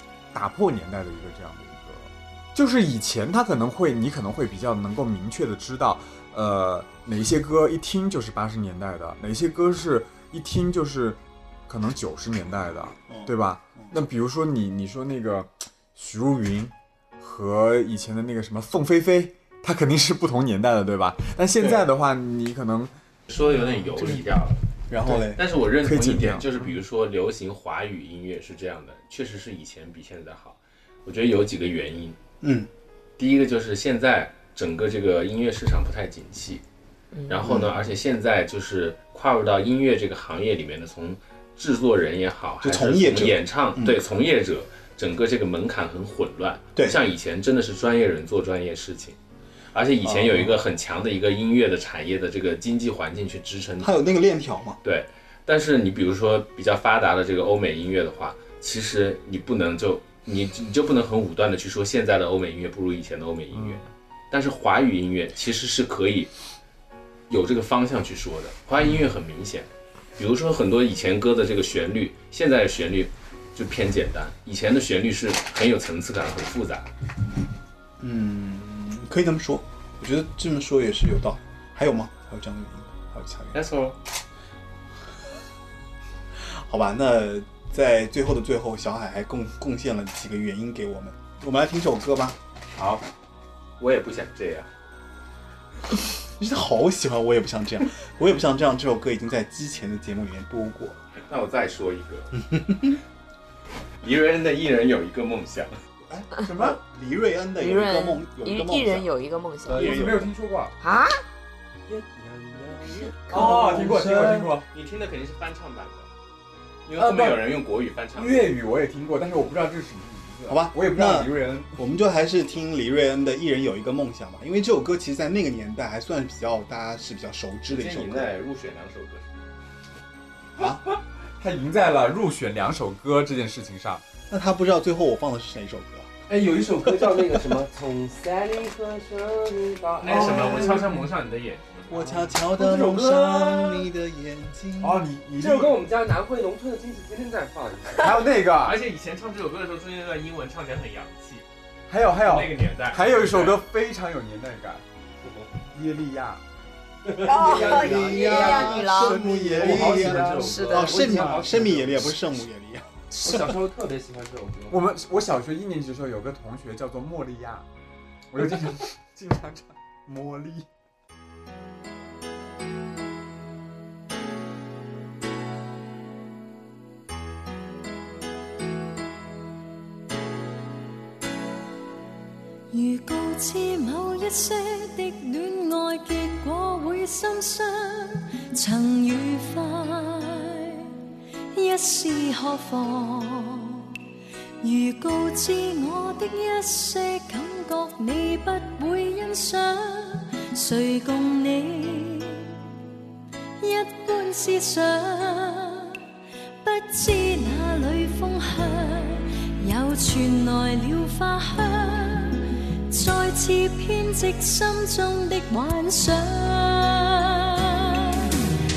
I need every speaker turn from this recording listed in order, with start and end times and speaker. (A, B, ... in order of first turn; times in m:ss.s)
0:00.3-0:22.9 A
0:13.1-0:14.0 B
0:21.6-0:21.8 B
0:23.3-0:32.2 C
0:24.9-0:25.4 B
0:25.8-0:26.7 A
0:32.4-0:32.7 B
0:33.2-0:36.6 C
0:37.1-0:37.4 D
0:37.3-0:49.2 C
0:37.4-0:37.9 B
0:42.6-0:44.0 B
0:49.7-0:54.0 C
0:50.0-0:50.6 B
0:53.8-0:54.8 B
0:54.8-1:06.3 C
1:03.5-1:03.8 A
1:07.3-1:16.9 C
1:18.0-1:23.5 B
1:23.5-1:24.0 C
1:26.6-1:32.4 B
1:32.7-1:33.0 C
1:33.8-1:34.7 C
1:36.4-1:41.0 B
1:41.3-1:42.3 C
1:42.4-1:43.0 B
1:44.0-1:45.7 C
1:46.1-1:49.1 B
1:46.4-1:46.8 A
1:47.6-1:50.1 D
1:49.6-1:50.3 B
1:49.7-1:50.7 A
1:50.8-1:51.2 D
1:51.9-1:53.7 E
1:53.3-1:54.7 A
1:53.3-1:54.5 B
1:53.7-1:56.1 C
1:56.8-1:58.5 C
1:57.0-1:57.5 A
1:58.1-2:01.7 A
2:00.5-2:08.3 B
2:07.7-2:09.3 C
2:10.6-2:10.8 B
2:10.6-2:14.0 A
2:14.3-2:16.1 B
2:16.3-2:20.8 E
2:20.0-2:22.0 C
2:20.1-2:20.9 B
2:21.9-2:25.0 B
2:22.6-2:23.8 A
2:24.8-2:25.8 A
2:25.4-2:28.2 E
2:28.0-2:28.8 A
2:28.5-2:31.4 C
2:31.9-2:34.8 A
2:32.1-2:33.6 C
2:35.2-2:35.5 E
2:35.7-2:36.4 A
2:37.0-2:38.8 E
2:37.2-2:39.2 D
2:37.4-2:42.9 B
2:38.2-2:41.7 A
2:39.4-2:42.2 E
2:40.4-2:41.0 D
2:43.1-2:44.8 E
2:44.7-2:47.6 A
2:48.3-2:50.7 A
3:02.7-3:10.9 F
3:11.5-3:13.9 F
3:14.6-3:22.5 F
3:23.6-3:26.0 F
3:26.6-3:38.4 F